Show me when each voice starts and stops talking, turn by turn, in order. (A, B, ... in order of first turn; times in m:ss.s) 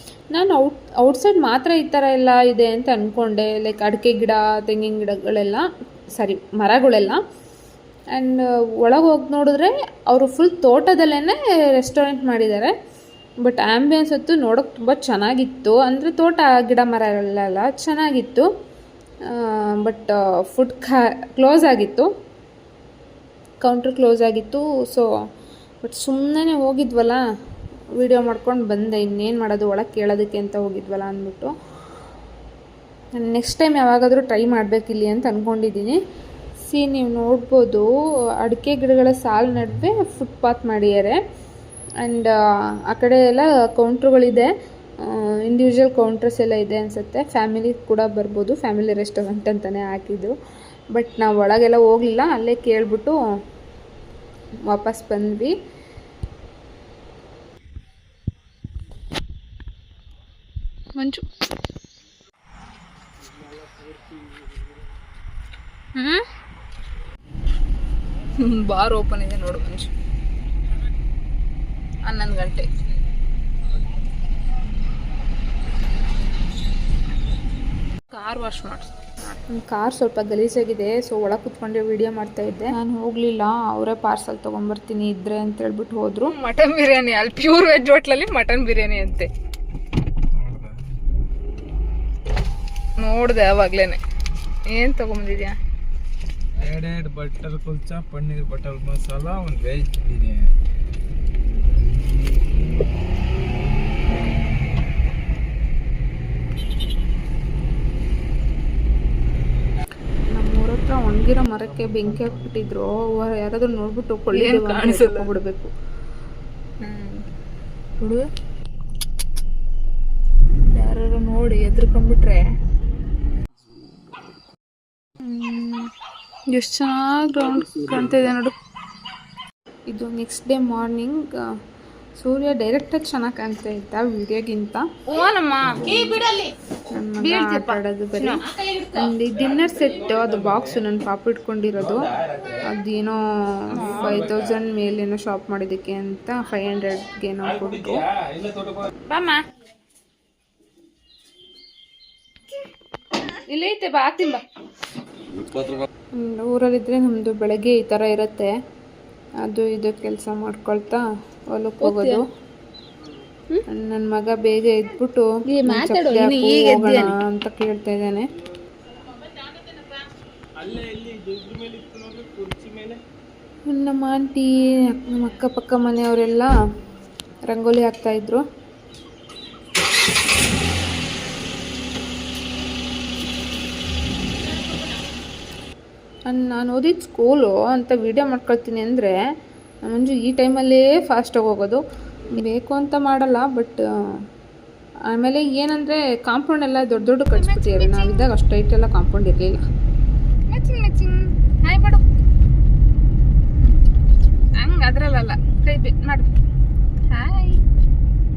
0:00.3-0:07.2 A
0:08.1-0:12.7 A
0:13.4-0:18.5 A
0:19.3-0:22.1 A
0:23.6-0:25.1 A
0:25.8-0:27.2 A
0:28.0-0:31.5 A
0:33.2-0:36.0 A
0:36.6-0:37.9 A
0:38.4-0:41.2 A
0:42.0-0:42.3 A
0:42.9-0:44.5 A
0:45.0-0:50.3 A
0:50.9-0:53.2 A
0:54.7-0:55.5 A
1:01.0-1:01.2 B
1:06.0-1:06.2 B
1:08.4-1:09.9 B
1:12.0-1:12.7 B
1:18.1-1:19.4 B
1:19.5-1:26.3 A
1:26.3-1:29.3 B
1:30.4-1:31.0 C
1:33.0-1:34.0 B
1:34.7-1:35.6 B
1:36.6-1:40.5 C
1:50.3-1:55.7 A
1:51.6-1:52.8 C
1:54.3-1:55.3 B
1:56.8-1:57.2 B
2:00.7-2:02.4 A
2:05.3-2:05.8 A
2:06.5-2:08.5 A
2:07.5-2:08.2 C
2:07.7-2:08.3 B
2:09.9-2:11.4 A
2:12.2-2:14.8 A
2:15.1-2:16.5 B
2:16.9-2:18.4 A
2:17.2-2:19.1 B
2:18.9-2:22.1 A
2:20.1-2:20.8 C
2:21.8-2:22.7 C
2:22.6-2:28.0 A
2:23.7-2:24.2 B
2:23.9-2:24.6 C
2:27.4-2:28.9 C
2:29.1-2:29.4 B
2:33.3-2:34.4 B
2:36.2-2:38.5 A
2:39.4-2:42.2 A
2:41.8-2:42.2 B
2:43.7-2:48.3 A
2:45.5-2:47.1 B
2:50.6-2:53.0 C
2:53.7-2:56.5 A
2:57.5-2:58.4 A
3:06.3-3:09.1 A
3:09.8-3:11.8 A
3:12.3-3:13.8 A
3:15.1-3:19.6 A
3:17.3-3:18.3 B
3:20.5-3:22.0 B
3:24.6-3:26.3 B
3:27.1-3:27.6 B